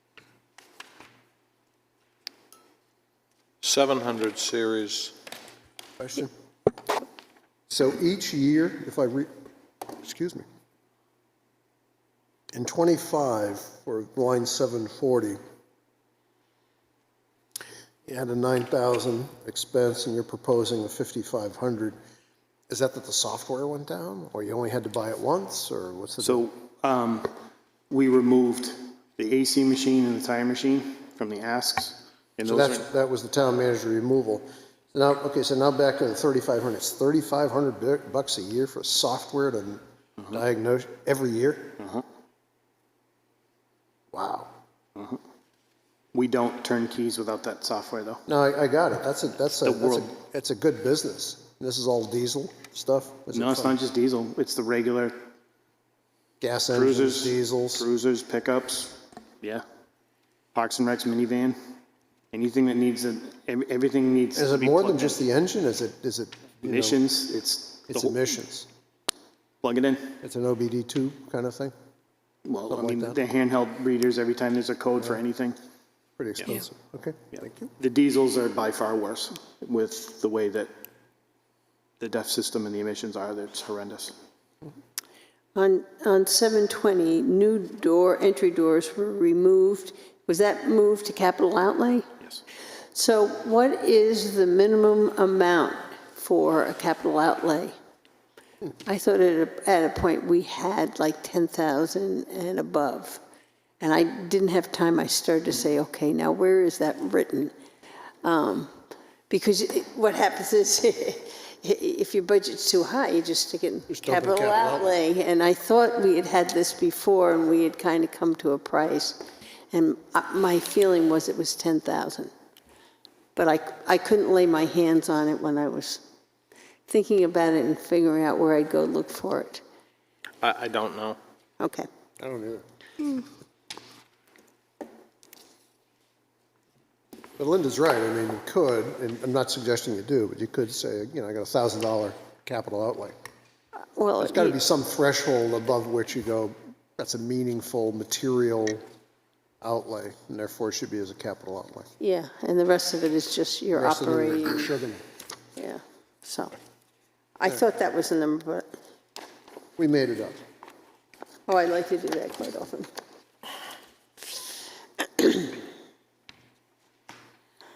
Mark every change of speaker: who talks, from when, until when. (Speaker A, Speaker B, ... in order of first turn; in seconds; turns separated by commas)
Speaker A: 3.6-5.2, Speaker B: 6.0-6.3, Speaker B: 7.7-9.3, Speaker B: 9.9-10.4, Speaker B: 12.5-15.4, Speaker B: 18.1-21.9, Speaker B: 22.7-26.5, Speaker C: 26.2-27.3, Speaker C: 27.9-32.8, Speaker B: 32.4-41.8, Speaker C: 41.8-42.0, Speaker B: 44.1-44.5, Speaker C: 46.1-48.2, Speaker B: 48.3-53.7, Speaker C: 49.6-50.1, Speaker C: 53.3-55.2, Speaker B: 56.4-57.9, Speaker C: 56.7-59.6, Speaker C: 60.5-61.6, Speaker C: 62.3-65.2, Speaker B: 64.3-67.0, Speaker C: 66.6-68.2, Speaker B: 67.9-68.7, Speaker C: 69.6-70.2, Speaker B: 70.2-71.7, Speaker C: 72.4-75.6, Speaker B: 72.7-73.2, Speaker B: 76.2-77.7, Speaker C: 77.3-80.7, Speaker C: 82.0-84.1, Speaker D: 85.5-92.0, Speaker D: 92.9-97.8, Speaker D: 98.8-103.2, Speaker D: 103.8-107.5, Speaker D: 108.2-108.7, Speaker D: 109.3-122.3, Speaker B: 113.9-115.0, Speaker D: 123.3-126.0, Speaker D: 126.9-129.6, Speaker A: 130.4-131.2, Speaker D: 131.6-131.9, Speaker B: 132.2-132.6, Speaker B: 137.4-143.2, Speaker D: 143.9-144.6, Speaker B: 144.2-148.8, Speaker B: 149.6-151.9, Speaker D: 152.0-154.7, Speaker B: 153.7-155.0, Speaker D: 155.6-156.6, Speaker D: 157.4-158.7, Speaker B: 159.8-160.4, Speaker D: 161.4-162.9, Speaker D: 165.2-165.4